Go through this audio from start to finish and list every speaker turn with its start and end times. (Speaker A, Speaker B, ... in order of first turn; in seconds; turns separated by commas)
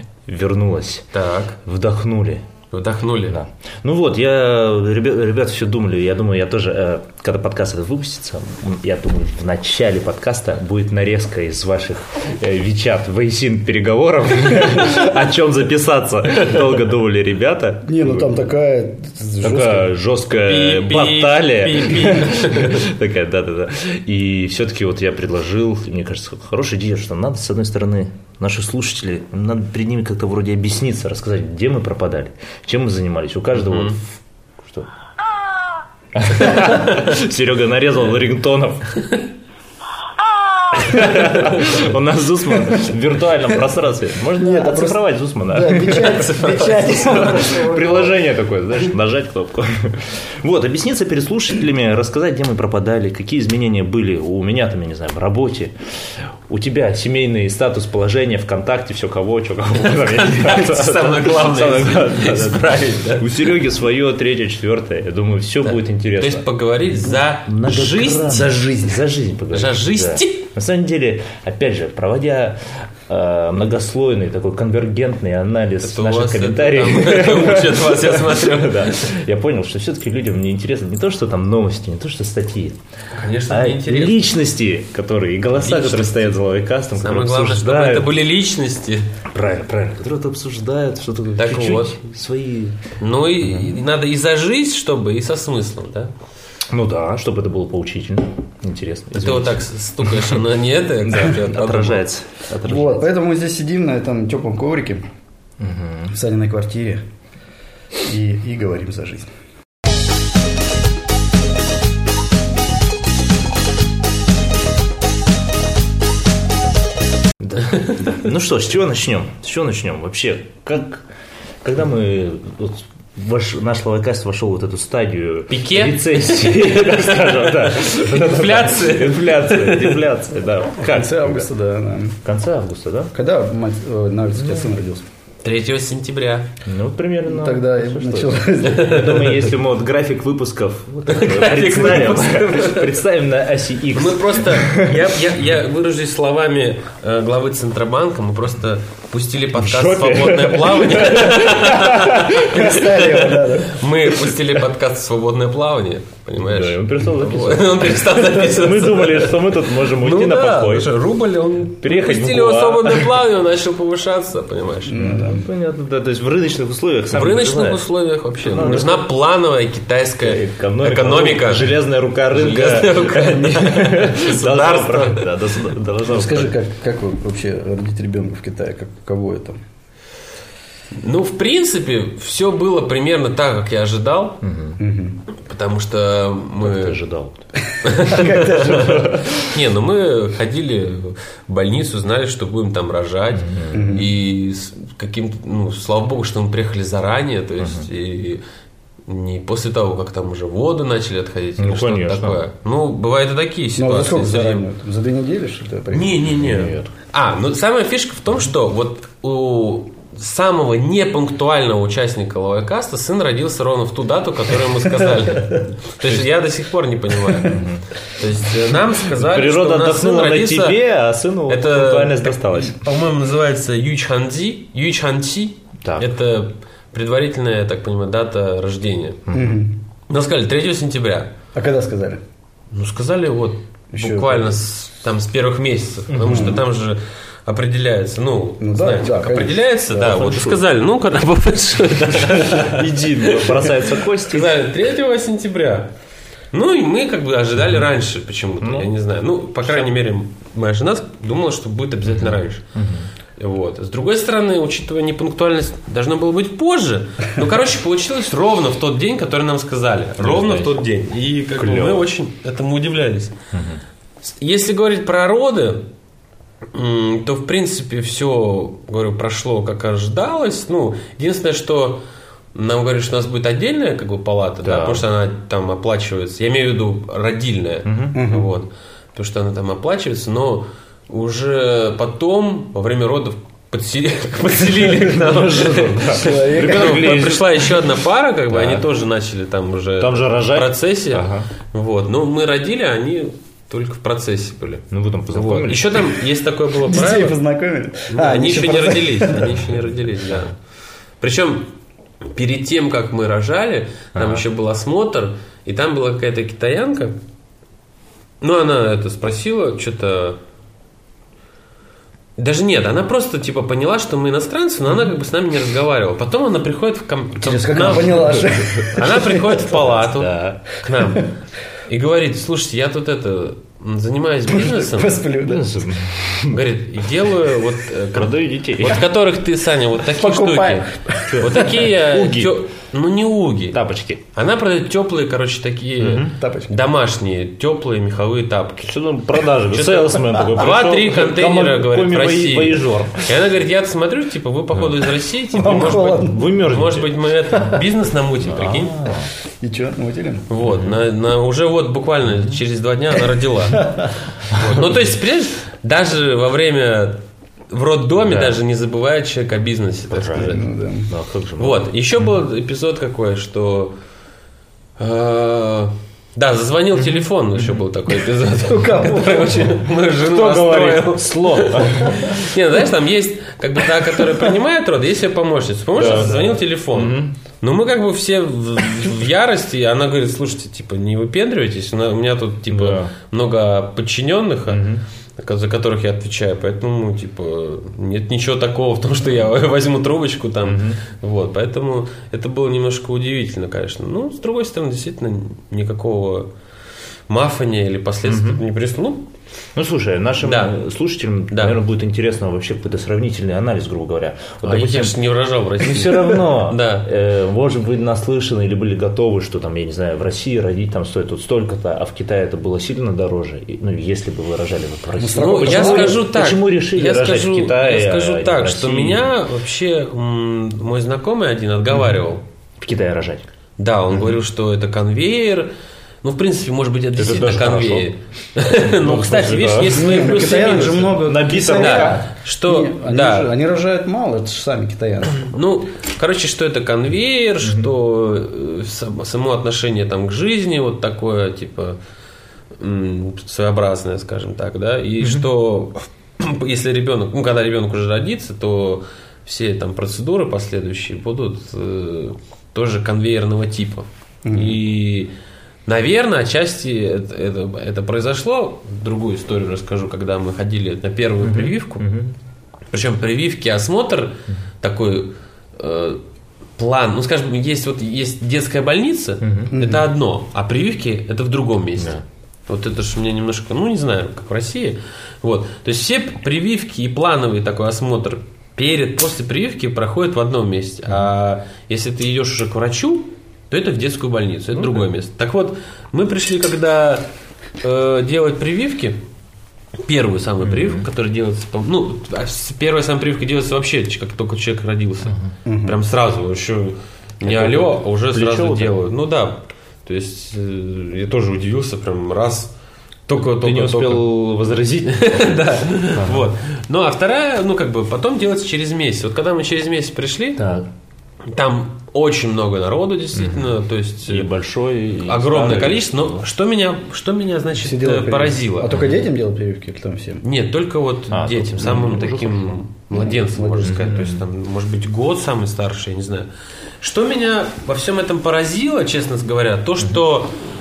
Speaker A: 0.3-1.1, Speaker B: 1.1-1.6, Speaker A: 1.6-2.5, Speaker B: 2.7-3.4, Speaker A: 3.3-18.4, Speaker C: 17.9-19.9, Speaker A: 19.4-34.1, Speaker B: 20.4-22.8, Speaker B: 33.6-34.0, Speaker A: 36.2-39.0, Speaker A: 40.7-46.2, Speaker C: 44.4-48.2, Speaker B: 45.9-47.5, Speaker A: 47.4-55.7, Speaker A: 56.5-66.5, Speaker B: 59.9-63.4, Speaker B: 65.6-68.6, Speaker A: 67.0-82.8, Speaker C: 68.3-68.9, Speaker B: 69.5-70.5, Speaker B: 75.8-79.1, Speaker B: 83.1-84.2, Speaker A: 83.5-88.1, Speaker B: 85.6-86.4, Speaker B: 87.0-89.1, Speaker A: 89.3-92.8, Speaker B: 91.4-92.0, Speaker B: 93.0-96.1, Speaker A: 96.7-100.3, Speaker B: 99.2-102.1, Speaker A: 101.2-103.0, Speaker C: 102.7-105.1, Speaker A: 105.6-106.1, Speaker C: 106.1-107.0, Speaker C: 108.0-109.3, Speaker A: 117.4-121.0, Speaker A: 121.6-131.5, Speaker B: 125.5-130.1, Speaker C: 130.8-132.2, Speaker A: 132.2-133.1, Speaker C: 133.1-135.1, Speaker B: 135.4-136.5, Speaker A: 136.7-145.1, Speaker C: 137.3-139.1, Speaker B: 138.7-139.4, Speaker B: 141.1-143.0, Speaker B: 143.9-164.9, Speaker A: 149.6-152.5, Speaker C: 152.5-153.9, Speaker A: 156.4-160.9, Speaker A: 161.8-163.1, Speaker C: 164.9-165.4, Speaker A: 164.9-167.9, Speaker B: 167.1-171.8, Speaker A: 168.4-169.1, Speaker A: 170.2-176.5, Speaker B: 172.3-175.3, Speaker C: 176.1-179.6, Speaker B: 180.9-184.4, Speaker A: 184.4-184.8, Speaker C: 184.8-185.2, Speaker B: 185.4-187.0, Speaker A: 186.6-187.4, Speaker C: 187.7-189.3, Speaker B: 187.8-198.4, Speaker A: 193.3-194.0, Speaker C: 193.7-194.1, Speaker A: 197.6-197.9, Speaker B: 199.1-204.7, Speaker A: 201.6-202.4, Speaker C: 203.8-206.3, Speaker B: 205.9-217.6, Speaker A: 206.3-206.9, Speaker A: 216.0-216.3, Speaker A: 217.5-217.9, Speaker B: 218.2-220.8, Speaker A: 219.1-222.8, Speaker B: 221.5-229.2, Speaker A: 225.8-226.1, Speaker A: 229.3-229.6, Speaker C: 229.3-229.8, Speaker B: 230.1-231.3, Speaker C: 231.5-232.2, Speaker B: 232.7-245.9, Speaker C: 233.9-234.6, Speaker A: 236.1-236.5, Speaker C: 236.2-236.6, Speaker C: 238.6-240.4, Speaker A: 240.1-240.6, Speaker A: 242.2-244.6, Speaker B: 246.5-252.6, Speaker A: 248.6-248.9, Speaker A: 252.1-253.1, Speaker B: 253.4-263.4, Speaker A: 260.2-260.8, Speaker A: 261.6-262.1, Speaker A: 263.5-263.8, Speaker B: 264.2-265.9, Speaker B: 266.7-272.0, Speaker B: 272.5-297.4, Speaker A: 274.6-275.1, Speaker A: 277.9-278.2, Speaker C: 278.1-278.5, Speaker A: 284.9-287.8, Speaker C: 286.2-287.1, Speaker A: 288.5-288.9, Speaker A: 290.0-291.5, Speaker A: 294.9-296.0, Speaker C: 296.9-299.6, Speaker B: 298.1-300.5, Speaker B: 301.2-301.7, Speaker B: 302.3-307.2, Speaker A: 304.1-304.4, Speaker B: 308.4-310.4, Speaker B: 312.4-321.3, Speaker C: 317.4-319.6, Speaker A: 318.1-318.4, Speaker A: 319.8-320.7, Speaker B: 321.9-325.2, Speaker C: 324.5-325.7, Speaker A: 325.4-326.6, Speaker B: 326.5-333.8, Speaker A: 328.1-329.0, Speaker C: 330.1-331.3, Speaker A: 331.2-332.6, Speaker A: 333.7-334.2, Speaker B: 334.3-338.9, Speaker A: 336.0-336.3, Speaker C: 336.3-336.8, Speaker A: 338.8-343.3, Speaker B: 339.7-348.9, Speaker C: 345.5-346.4, Speaker A: 346.2-347.1, Speaker A: 348.4-349.3, Speaker C: 349.6-350.5, Speaker B: 350.5-360.7, Speaker A: 350.6-351.0, Speaker C: 353.7-354.1, Speaker A: 358.2-358.6, Speaker A: 360.1-362.3, Speaker C: 360.4-361.1, Speaker B: 361.6-364.0, Speaker B: 365.0-384.9, Speaker C: 368.6-369.7, Speaker A: 370.2-372.5, Speaker A: 376.0-377.4, Speaker C: 376.1-376.5, Speaker A: 382.7-383.1, Speaker A: 384.7-385.0, Speaker B: 385.4-396.5, Speaker A: 390.6-391.0, Speaker B: 397.3-399.3, Speaker A: 398.3-398.6, Speaker A: 399.8-405.2, Speaker B: 400.4-400.7, Speaker B: 401.5-401.8, Speaker B: 404.6-407.1, Speaker A: 405.8-419.4, Speaker C: 415.2-416.3, Speaker B: 415.4-422.4, Speaker A: 422.8-423.4, Speaker B: 423.8-425.7, Speaker B: 426.2-431.2, Speaker A: 427.2-428.1, Speaker A: 428.8-430.4, Speaker C: 429.9-435.5, Speaker A: 431.2-432.3, Speaker B: 431.8-433.6, Speaker B: 435.3-442.0, Speaker A: 437.6-437.9, Speaker B: 442.8-455.3, Speaker C: 454.4-454.8, Speaker B: 455.9-462.1, Speaker A: 461.4-462.4, Speaker B: 462.9-466.2, Speaker B: 466.8-487.3, Speaker A: 469.4-469.7, Speaker C: 469.7-470.1, Speaker A: 472.0-472.2, Speaker A: 484.8-485.0, Speaker B: 487.8-489.2, Speaker B: 490.0-502.7, Speaker A: 490.6-491.1, Speaker A: 495.3-495.5, Speaker C: 495.7-496.0, Speaker A: 497.4-499.0, Speaker B: 503.3-504.3, Speaker A: 503.4-505.6, Speaker B: 505.1-510.6, Speaker A: 506.1-506.5, Speaker A: 510.6-510.9, Speaker B: 511.5-514.5, Speaker A: 513.3-513.8, Speaker A: 514.3-516.5, Speaker B: 515.2-519.1, Speaker C: 517.8-520.4, Speaker A: 518.9-519.2, Speaker B: 520.4-526.5, Speaker A: 521.3-522.8, Speaker C: 523.1-524.0, Speaker A: 523.8-524.4, Speaker B: 527.0-530.6